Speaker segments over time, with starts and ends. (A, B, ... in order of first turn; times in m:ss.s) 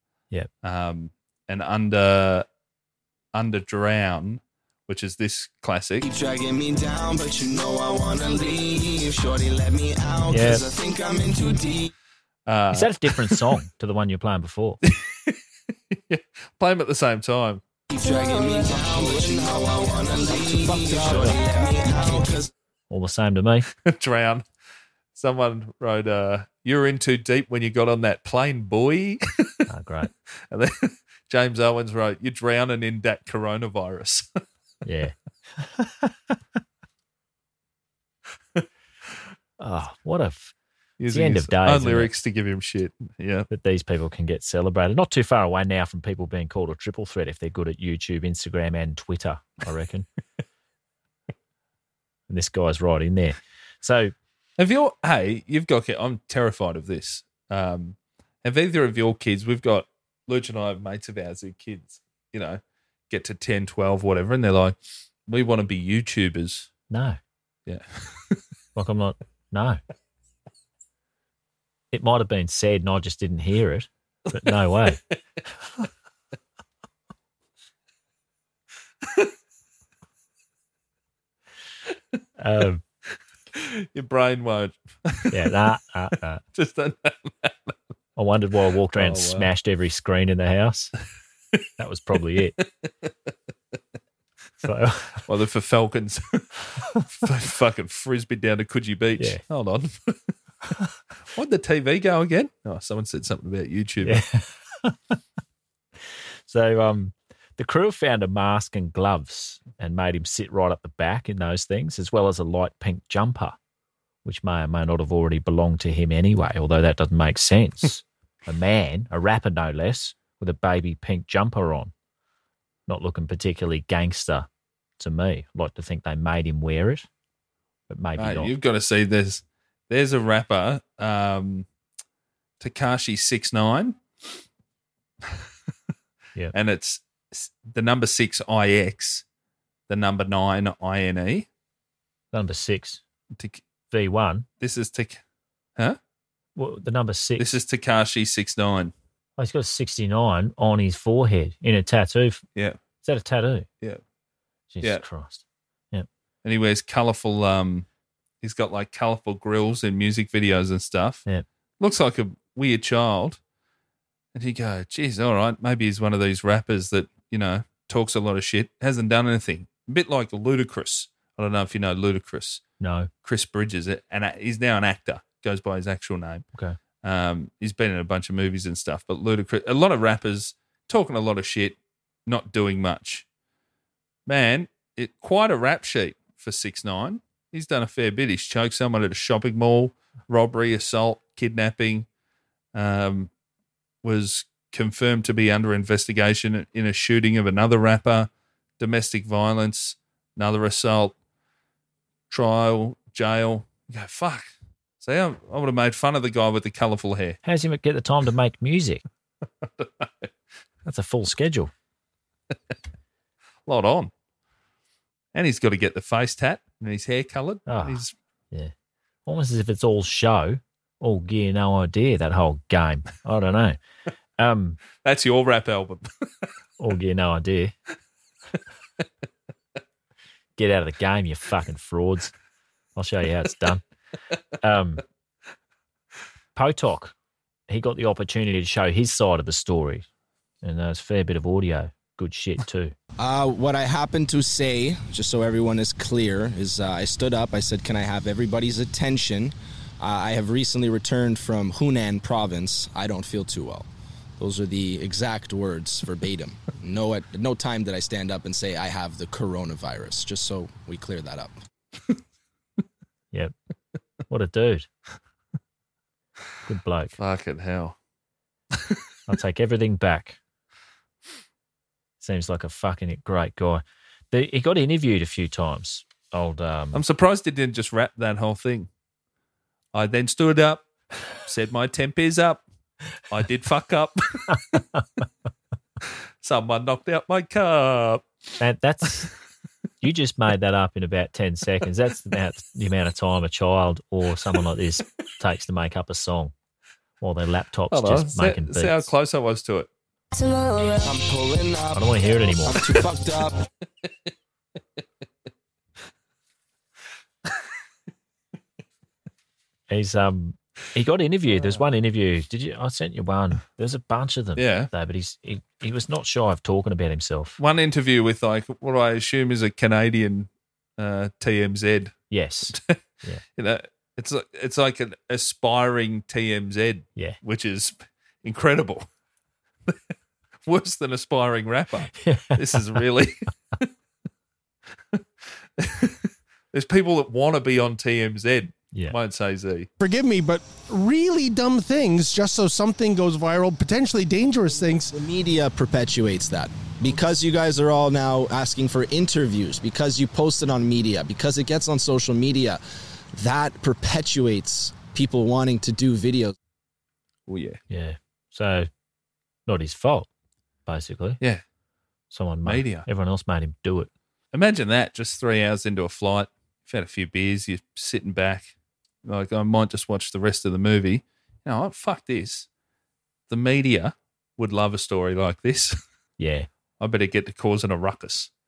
0:00.6-0:02.4 A
0:03.3-0:06.0 A
0:06.0-0:11.9 B
0:10.3-0:10.6 C
0:12.5-0:13.4 A
0:12.7-0:14.8 C
0:14.8-0:15.4 A
0:15.9-0:17.6 A
0:17.9-0:22.5 B
0:19.2-0:19.6 D
0:20.2-0:21.4 D
0:22.9-0:23.7 C
0:23.7-0:24.4 A
0:25.1-0:29.6 A
0:29.7-0:30.1 C
0:30.5-0:34.3 A
0:34.8-0:36.3 C
0:39.6-0:40.5 C
0:41.0-0:43.5 A
0:41.1-0:42.1 C
0:43.5-0:50.0 C
0:52.3-0:54.1 C
0:54.6-1:04.8 A
1:05.3-1:06.7 A
1:06.9-1:07.2 C
1:07.6-1:08.4 A
1:08.8-1:09.8 C
1:11.9-1:15.0 C
1:22.4-1:22.8 C
1:23.5-1:25.4 A
1:25.3-1:26.4 C
1:26.5-1:27.7 A
1:28.2-1:30.9 C
1:29.0-1:29.5 A
1:31.8-1:32.6 C
1:34.6-1:35.2 C
1:35.2-1:40.3 A
1:41.3-1:44.2 A
1:44.0-1:45.2 C
1:46.5-1:53.6 C
1:54.2-2:01.9 C
2:02.9-2:04.5 C
2:05.0-2:07.1 C
2:07.9-2:08.5 C
2:08.2-2:11.6 A
2:12.6-2:14.0 A
2:16.5-2:19.2 A
2:19.9-2:21.5 A
2:22.3-2:23.0 C
2:23.4-2:23.6 A
2:23.9-2:24.4 C
2:24.6-2:25.2 A
2:26.6-2:27.5 C
2:27.4-2:28.9 A
2:29.4-2:32.4 C
2:33.0-2:33.7 C
2:34.7-2:36.1 C
2:36.4-2:37.8 A
2:38.4-2:41.2 A
2:41.8-2:43.4 A
2:44.3-2:52.6 A
2:52.8-2:53.1 C
2:53.2-2:56.4 A
2:57.0-3:03.2 A
3:04.3-3:12.0 A
3:12.7-3:13.3 A
3:14.0-3:21.1 A
3:22.3-3:27.4 A
3:27.4-3:29.0 C
3:29.6-3:30.3 A
3:30.8-3:31.7 C
3:33.6-3:34.1 A
3:35.3-3:38.1 A
3:37.7-3:38.7 C
3:39.2-3:43.8 C
3:44.4-3:44.8 C
3:45.0-3:46.1 A
3:46.8-3:47.7 C
3:50.6-3:52.3 C
3:53.0-3:53.8 C
3:54.6-3:55.0 C
3:56.6-3:57.1 C
3:57.7-4:00.0 C
4:00.6-4:02.9 C
4:03.2-4:13.9 D
4:14.4-4:21.5 D
4:24.3-4:24.9 C
4:26.6-4:27.1 C
4:27.2-4:27.9 A
4:29.3-4:30.4 C
4:32.2-4:37.0 C
4:36.9-4:38.9 A
4:39.9-4:40.8 A
4:41.4-4:42.6 A
4:43.3-4:44.8 A
4:44.5-4:45.0 C
4:46.4-4:48.2 A
4:48.6-4:49.3 C
4:50.0-4:56.5 C
4:57.2-4:59.1 C
4:57.9-4:59.9 A
5:01.1-5:01.9 B
5:01.1-5:01.5 D
5:01.9-5:02.8 C
5:02.8-5:03.6 D
5:09.9-5:17.6 C
5:14.6-5:14.9 A
5:17.6-5:22.2 A
5:22.3-5:23.4 C
5:22.7-5:23.0 A
5:23.6-5:29.0 A
5:30.6-5:33.9 A
5:32.2-5:32.9 C
5:35.8-5:39.9 A
5:40.0-5:45.1 E
5:44.9-5:52.8 D
5:53.3-5:56.5 D
5:57.5-5:57.8 A
5:57.9-5:58.9 C
5:59.6-6:00.3 C
6:00.8-6:01.4 C
6:02.3-6:04.1 C
6:02.6-6:03.0 A
6:04.5-6:08.7 A
6:09.2-6:12.7 A
6:13.5-6:16.0 A
6:16.4-6:16.7 C
6:17.0-6:18.5 A